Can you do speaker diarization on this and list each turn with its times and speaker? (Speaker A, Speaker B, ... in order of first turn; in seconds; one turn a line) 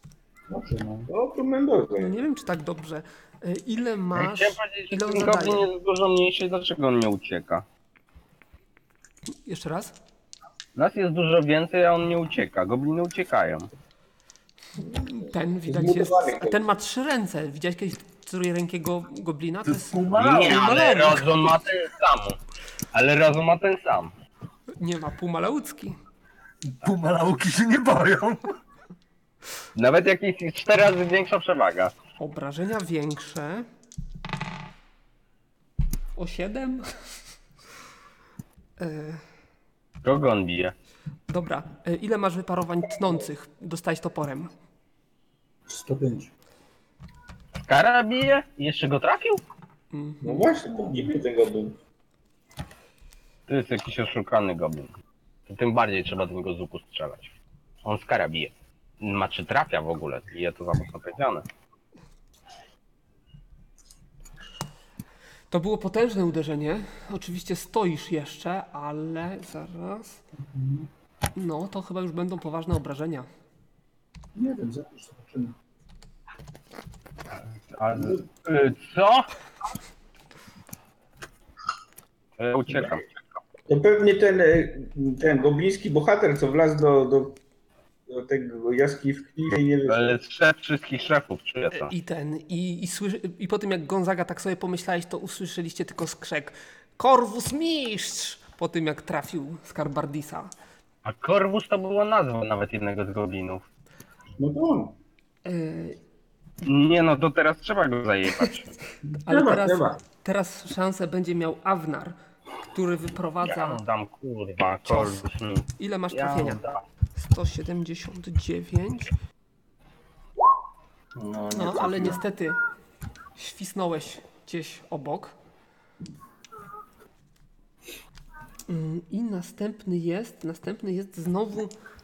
Speaker A: 0.5-1.1
Speaker B: 1.1-2.2
Speaker C: 2.0-5.7
Speaker D: 4.1-7.6
Speaker C: 9.4-9.9
Speaker D: 10.8-13.7
Speaker C: 14.8-21.5
Speaker B: 15.7-16.6
Speaker E: 19.6-20.9
Speaker D: 20.2-22.4
Speaker D: 22.9-24.1
Speaker C: 24.8-26.0
Speaker E: 26.7-28.5
Speaker D: 29.7-31.9
Speaker C: 32.2-33.6
Speaker C: 36.1-36.9
Speaker C: 38.8-39.2
Speaker D: 40.0-40.7
Speaker C: 41.3-44.5
Speaker A: 45.7-46.3
Speaker D: 47.6-49.4
Speaker C: 49.9-50.5
Speaker B: 50.2-51.8
Speaker A: 50.8-51.1
Speaker D: 53.5-54.9
Speaker D: 55.5-61.5
Speaker C: 65.5-70.2
Speaker A: 70.4-70.9
Speaker C: 71.3-73.3
Speaker A: 74.3-75.5
Speaker D: 77.3-79.3
Speaker D: 82.4-83.1
Speaker B: 83.7-87.4
Speaker B: 88.1-90.2
Speaker D: 89.9-91.9
Speaker C: 91.7-100.5
Speaker D: 101.0-103.6
Speaker B: 104.4-105.0
Speaker C: 105.4-106.0
Speaker D: 106.6-108.7
Speaker B: 109.1-110.0
Speaker C: 109.2-112.2
Speaker C: 112.7-113.8
Speaker D: 113.4-116.8
Speaker C: 114.8-115.2
Speaker C: 115.8-116.6
Speaker C: 117.1-119.1
Speaker E: 121.1-122.2
Speaker C: 121.5-122.6
Speaker C: 123.3-125.3
Speaker C: 128.7-131.7